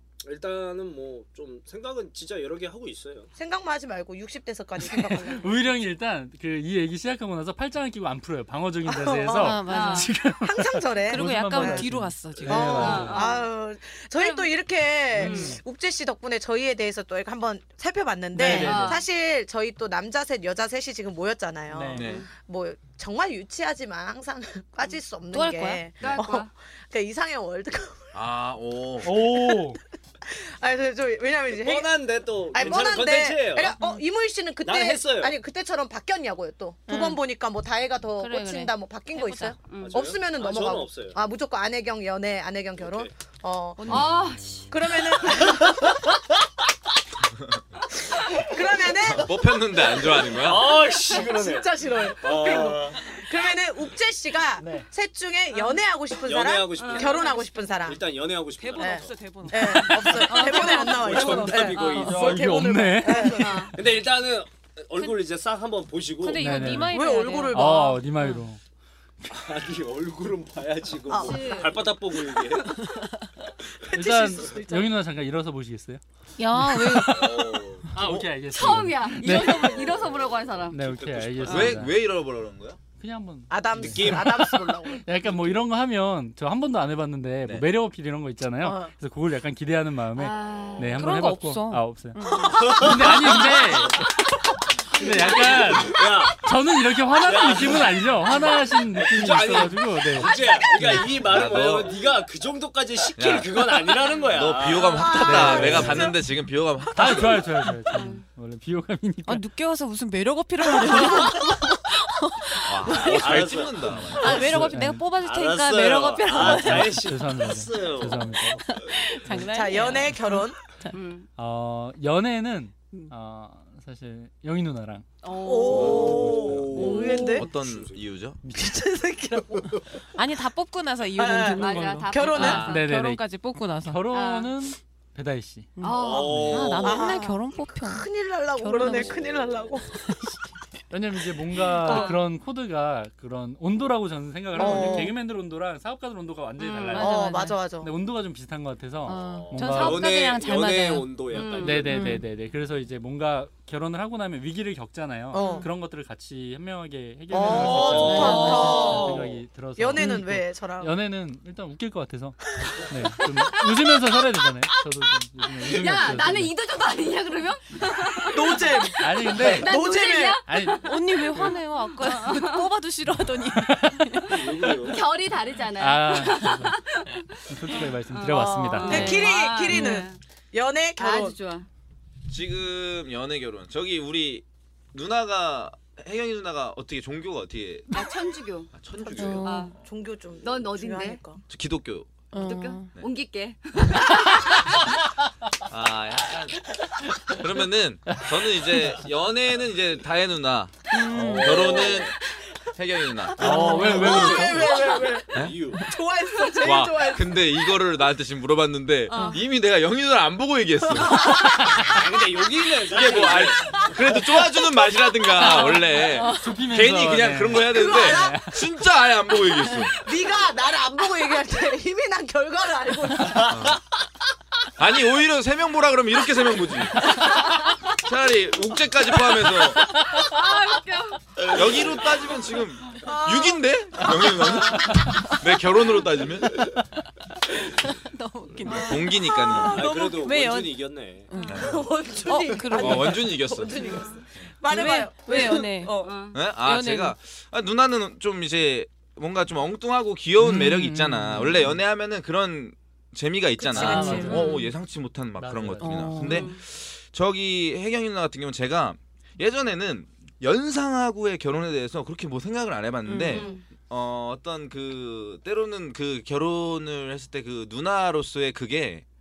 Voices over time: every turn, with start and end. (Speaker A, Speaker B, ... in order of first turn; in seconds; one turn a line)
Speaker A: 0.2-3.3
Speaker B: 3.4-5.6
Speaker C: 4.8-13.3
Speaker B: 8.8-9.6
Speaker D: 9.3-10.1
Speaker E: 9.6-10.1
Speaker B: 10.3-11.9
Speaker D: 11.1-13.2
Speaker B: 12.4-28.2
Speaker E: 12.7-13.4
Speaker E: 14.2-14.5
Speaker C: 15.1-15.6
Speaker E: 15.2-15.6
Speaker C: 18.3-19.0
Speaker E: 18.4-19.0
Speaker C: 21.7-22.1
Speaker F: 21.9-22.2
Speaker E: 22.0-22.3
Speaker D: 25.3-25.9
Speaker E: 26.0-26.5
Speaker F: 28.1-29.1
Speaker C: 29.0-29.8
Speaker B: 29.1-29.7
Speaker B: 30.2-31.9
Speaker A: 31.5-33.8
Speaker B: 32.5-44.1
Speaker A: 34.6-35.4
Speaker D: 36.9-37.2
Speaker D: 38.2-39.6
Speaker E: 39.7-40.0
Speaker A: 39.8-41.2
Speaker A: 42.8-43.1
Speaker E: 43.8-44.7
Speaker C: 44.0-44.6
Speaker B: 44.7-46.1
Speaker A: 45.3-45.9
Speaker B: 48.1-49.5
Speaker F: 49.0-50.8
Speaker A: 50.0-53.3
Speaker B: 51.1-58.0
Speaker C: 54.6-54.9
Speaker A: 56.2-59.1
Speaker E: 56.8-57.2
Speaker D: 58.6-62.1
Speaker B: 58.8-63.7
Speaker A: 60.4-62.5
Speaker C: 61.9-63.7
Speaker E: 63.1-63.7
Speaker A: 63.7-66.8
Speaker D: 66.2-68.4
Speaker C: 66.4-67.0
Speaker B: 66.9-68.1
Speaker C: 67.5-68.6
Speaker A: 69.3-72.8
Speaker B: 71.1-71.8
Speaker E: 71.1-71.8
Speaker B: 73.8-74.9
Speaker C: 74.0-76.0
Speaker D: 76.4-77.5
Speaker C: 76.5-77.3
Speaker A: 77.0-78.2
Speaker C: 77.9-79.8
Speaker E: 78.5-80.8
Speaker A: 79.9-81.9
Speaker C: 80.7-82.0
Speaker F: 81.5-82.8
Speaker C: 83.0-94.1
Speaker B: 83.5-85.0
Speaker A: 83.7-84.5
Speaker B: 88.6-88.9
Speaker E: 90.1-91.1
Speaker D: 90.9-92.9
Speaker B: 92.3-93.6
Speaker A: 92.6-93.3
Speaker C: 94.9-100.4
Speaker A: 95.2-96.5
Speaker A: 97.2-106.0
Speaker F: 101.0-102.0
Speaker F: 103.2-103.7
Speaker F: 104.3-107.5
Speaker B: 104.9-106.2
Speaker C: 105.4-106.1
Speaker C: 106.9-109.5
Speaker E: 107.9-108.2
Speaker D: 109.2-113.3
Speaker B: 110.8-111.5
Speaker F: 112.7-114.7
Speaker A: 113.0-119.3
Speaker C: 113.8-115.0
Speaker D: 114.1-117.1
Speaker C: 116.3-118.6
Speaker D: 118.5-120.9
Speaker C: 119.3-119.5
Speaker B: 119.4-120.6
Speaker E: 120.9-121.3
Speaker C: 121.4-125.1
Speaker E: 125.2-127.4
Speaker B: 125.4-127.5
Speaker A: 125.7-128.0
Speaker F: 125.9-126.6
Speaker C: 126.3-126.8
Speaker F: 127.4-128.4
Speaker C: 128.4-128.8
Speaker B: 128.5-130.1
Speaker D: 130.2-134.0
Speaker B: 131.2-132.8
Speaker E: 131.5-132.9
Speaker C: 131.6-133.2
Speaker A: 132.4-132.7
Speaker C: 133.8-135.7
Speaker E: 134.1-134.5
Speaker D: 135.8-140.5
Speaker E: 135.8-136.9
Speaker A: 135.9-137.0
Speaker C: 136.3-136.7
Speaker B: 136.8-140.0
Speaker A: 138.9-139.8
Speaker C: 140.9-150.3
Speaker B: 141.7-142.2
Speaker E: 141.9-142.2
Speaker B: 144.6-145.2
Speaker E: 144.6-144.9
Speaker D: 144.6-144.9
Speaker E: 146.6-147.1
Speaker D: 146.9-147.7
Speaker B: 146.9-147.9
Speaker D: 149.0-151.2
Speaker A: 149.1-152.2
Speaker E: 151.3-151.8
Speaker C: 151.6-162.4
Speaker D: 151.8-152.3
Speaker B: 155.3-155.7
Speaker E: 155.3-155.7
Speaker B: 157.3-160.9
Speaker A: 157.4-159.4
Speaker D: 157.9-159.1
Speaker E: 158.1-158.4
Speaker D: 160.0-160.2
Speaker C: 162.9-166.5
Speaker E: 165.7-172.7
Speaker B: 168.2-170.4
Speaker C: 169.0-169.8
Speaker C: 170.4-171.6
Speaker D: 170.8-174.7
Speaker C: 173.5-174.1
Speaker A: 174.3-175.0
Speaker E: 174.7-180.2
Speaker C: 175.8-176.8
Speaker C: 177.5-179.8
Speaker B: 178.3-181.4
Speaker E: 180.9-181.7
Speaker F: 182.3-188.0
Speaker E: 187.9-188.7
Speaker F: 188.7-189.4
Speaker B: 189.0-191.4
Speaker D: 189.1-189.8
Speaker E: 189.3-189.7
Speaker E: 190.4-191.2
Speaker F: 191.5-192.1
Speaker D: 192.3-192.9
Speaker E: 192.4-194.7
Speaker F: 195.7-196.7
Speaker F: 197.3-202.2
Speaker C: 198.1-198.9
Speaker D: 200.9-201.8
Speaker A: 201.1-202.1
Speaker F: 202.7-203.7
Speaker C: 203.4-204.7
Speaker B: 203.4-207.6
Speaker D: 203.5-204.2
Speaker A: 203.7-205.8
Speaker F: 206.6-211.4
Speaker E: 209.1-209.4
Speaker B: 210.9-211.8
Speaker A: 211.9-213.9
Speaker F: 212.9-220.0
Speaker B: 213.8-215.6
Speaker C: 215.4-218.6
Speaker D: 216.1-216.5
Speaker B: 217.6-218.7
Speaker B: 219.7-223.8
Speaker F: 223.5-223.8
Speaker F: 224.8-227.1
Speaker F: 227.9-229.9
Speaker E: 230.1-231.5
Speaker A: 231.5-232.1
Speaker F: 231.5-236.7
Speaker B: 233.0-234.6
Speaker D: 235.1-235.3
Speaker D: 237.5-243.8
Speaker F: 238.6-239.9
Speaker B: 239.5-240.3
Speaker A: 239.7-241.3
Speaker F: 241.4-241.9
Speaker B: 241.5-246.1
Speaker F: 242.7-243.7
Speaker E: 243.9-244.2
Speaker D: 244.7-246.0
Speaker E: 245.3-246.4
Speaker F: 246.3-269.1
Speaker D: 246.6-247.2
Speaker C: 250.4-251.8
Speaker B: 253.6-254.6
Speaker D: 253.7-254.7
Speaker C: 253.9-254.4
Speaker C: 255.4-256.3
Speaker D: 255.8-256.5
Speaker E: 256.2-256.6
Speaker D: 263.1-263.5
Speaker E: 263.3-263.6